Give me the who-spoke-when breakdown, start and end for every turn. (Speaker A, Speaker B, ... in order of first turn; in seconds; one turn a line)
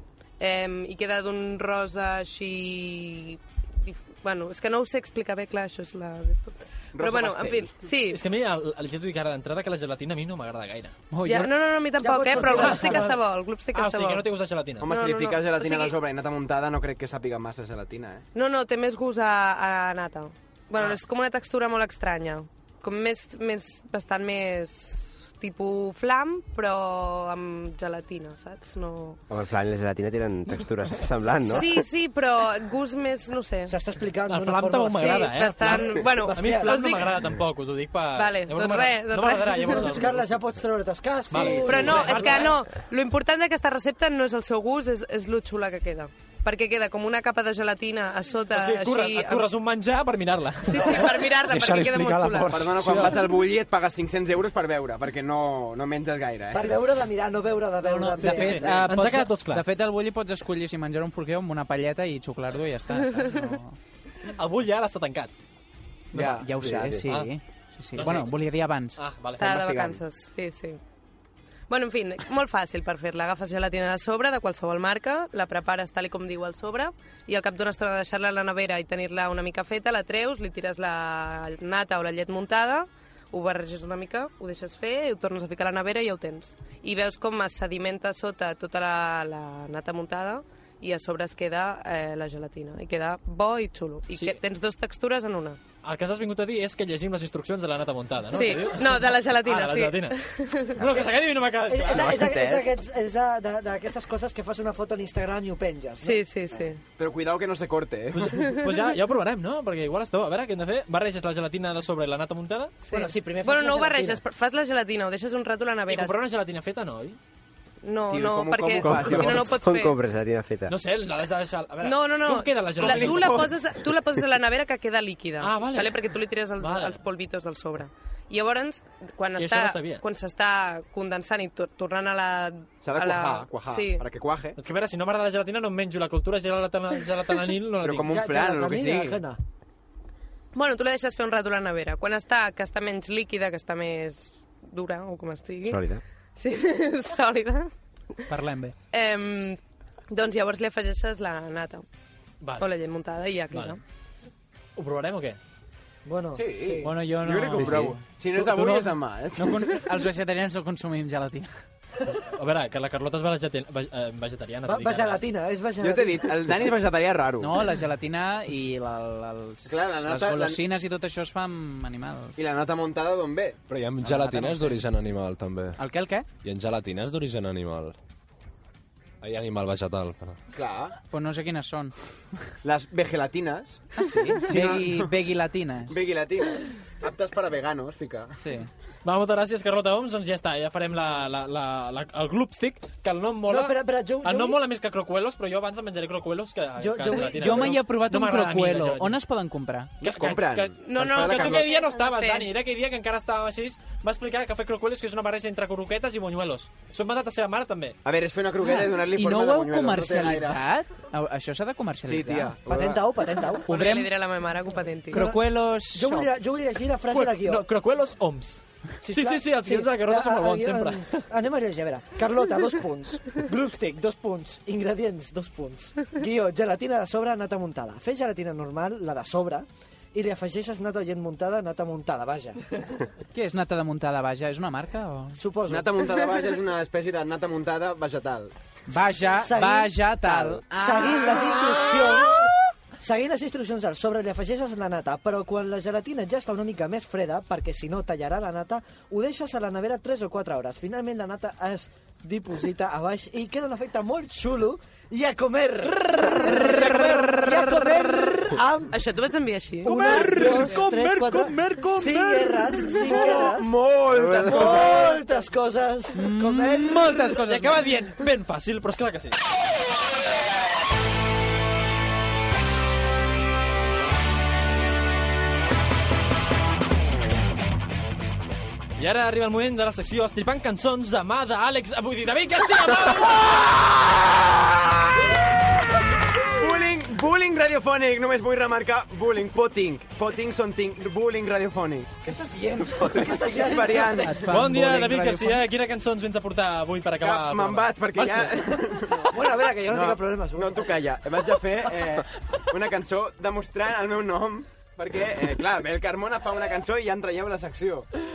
Speaker A: 0.4-8.2
Speaker B: 6.9-7.8
Speaker C: 8.1-10.9
Speaker D: 11.1-11.5
Speaker A: 11.2-14.2
Speaker E: 12.0-13.1
Speaker C: 12.3-13.2
Speaker C: 13.7-14.9
Speaker B: 14.8-18.2
Speaker A: 14.8-15.9
Speaker A: 18.3-29.2
Speaker F: 29.3-31.7
Speaker A: 31.4-33.7
Speaker E: 33.7-37.0
Speaker C: 34.2-40.3
Speaker A: 34.9-37.1
Speaker A: 38.1-39.9
Speaker E: 39.6-42.4
Speaker C: 41.3-42.6
Speaker B: 41.3-42.0
Speaker A: 41.6-49.5
Speaker C: 48.5-51.2
Speaker A: 50.6-52.6
Speaker G: 51.4-53.2
Speaker B: 52.5-56.8
Speaker E: 56.5-58.9
Speaker D: 57.8-63.8
Speaker C: 58.2-59.6
Speaker A: 63.1-63.5
Speaker C: 64.3-65.3
Speaker B: 66.1-67.0
Speaker D: 66.1-69.0
Speaker C: 66.2-67.3
Speaker F: 66.6-66.9
Speaker C: 67.9-68.4
Speaker C: 69.0-69.9
Speaker A: 69.4-70.8
Speaker D: 69.5-69.9
Speaker A: 71.7-95.6
Speaker C: 94.1-94.4
Speaker C: 95.8-100.2
Speaker A: 98.3-100.8
Speaker C: 100.8-102.5
Speaker E: 101.6-106.2
Speaker B: 102.2-102.6
Speaker A: 106.0-106.8
Speaker B: 107.0-108.4
Speaker C: 108.1-112.8
Speaker A: 108.3-108.8
Speaker A: 112.8-116.2
Speaker E: 112.9-114.2
Speaker C: 115.9-117.2
Speaker A: 117.8-119.9
Speaker B: 118.1-119.6
Speaker F: 118.9-120.7
Speaker C: 120.7-123.5
Speaker A: 121.8-134.0
Speaker B: 122.8-123.5
Speaker C: 125.4-127.0
Speaker C: 129.3-130.0
Speaker B: 132.8-134.6
Speaker C: 134.6-138.2
Speaker B: 137.8-139.2
Speaker E: 138.1-139.4
Speaker A: 140.5-145.8
Speaker F: 145.7-146.0
Speaker A: 146.3-147.7
Speaker D: 148.3-148.7
Speaker A: 148.9-149.6
Speaker A: 150.1-151.8
Speaker C: 152.4-152.7
Speaker A: 152.6-153.8
Speaker C: 153.5-153.8
Speaker C: 154.8-155.4
Speaker E: 156.0-157.0
Speaker B: 156.3-159.8
Speaker D: 156.8-158.0
Speaker C: 157.6-158.9
Speaker D: 159.3-161.5
Speaker C: 162.3-165.3
Speaker E: 164.6-166.6
Speaker B: 165.8-167.6
Speaker D: 167.4-172.4
Speaker B: 169.6-170.6
Speaker B: 172.4-173.6
Speaker G: 173.7-175.8
Speaker D: 174.0-174.8
Speaker D: 175.8-176.2
Speaker G: 176.4-177.9
Speaker G: 179.2-180.4
Speaker B: 180.5-180.9
Speaker D: 181.1-181.9
Speaker B: 182.6-185.1
Speaker D: 183.9-186.0
Speaker B: 185.9-188.3
Speaker D: 188.4-188.7
Speaker C: 189.0-199.2
Speaker E: 193.5-194.6
Speaker E: 196.8-197.8
Speaker D: 197.1-199.9
Speaker B: 200.0-201.7
Speaker C: 200.0-208.0
Speaker A: 200.8-202.5
Speaker B: 208.0-210.6
Speaker D: 208.6-212.6
Speaker B: 212.1-213.1
Speaker E: 212.6-213.7
Speaker D: 213.7-214.1
Speaker A: 213.7-215.2
Speaker D: 215.1-216.3
Speaker E: 215.1-217.7
Speaker C: 217.1-221.2
Speaker E: 219.0-232.6
Speaker D: 233.3-235.4
Speaker E: 235.3-236.0
Speaker B: 235.7-238.5
Speaker D: 238.9-241.9
Speaker E: 239.3-240.0
Speaker B: 240.2-240.6
Speaker E: 240.7-242.4
Speaker E: 243.0-259.0
Speaker D: 256.4-258.4
Speaker A: 258.9-260.3
Speaker E: 259.8-267.2
Speaker C: 259.8-263.0
Speaker D: 259.9-260.5
Speaker B: 263.0-265.2
Speaker D: 266.1-267.9
Speaker C: 267.4-269.4
Speaker C: 279.0-283.5
Speaker B: 286.5-294.5
Speaker E: 292.2-294.4
Speaker D: 294.1-295.6
Speaker C: 294.5-298.6
Speaker B: 297.2-308.1
Speaker E: 299.3-301.0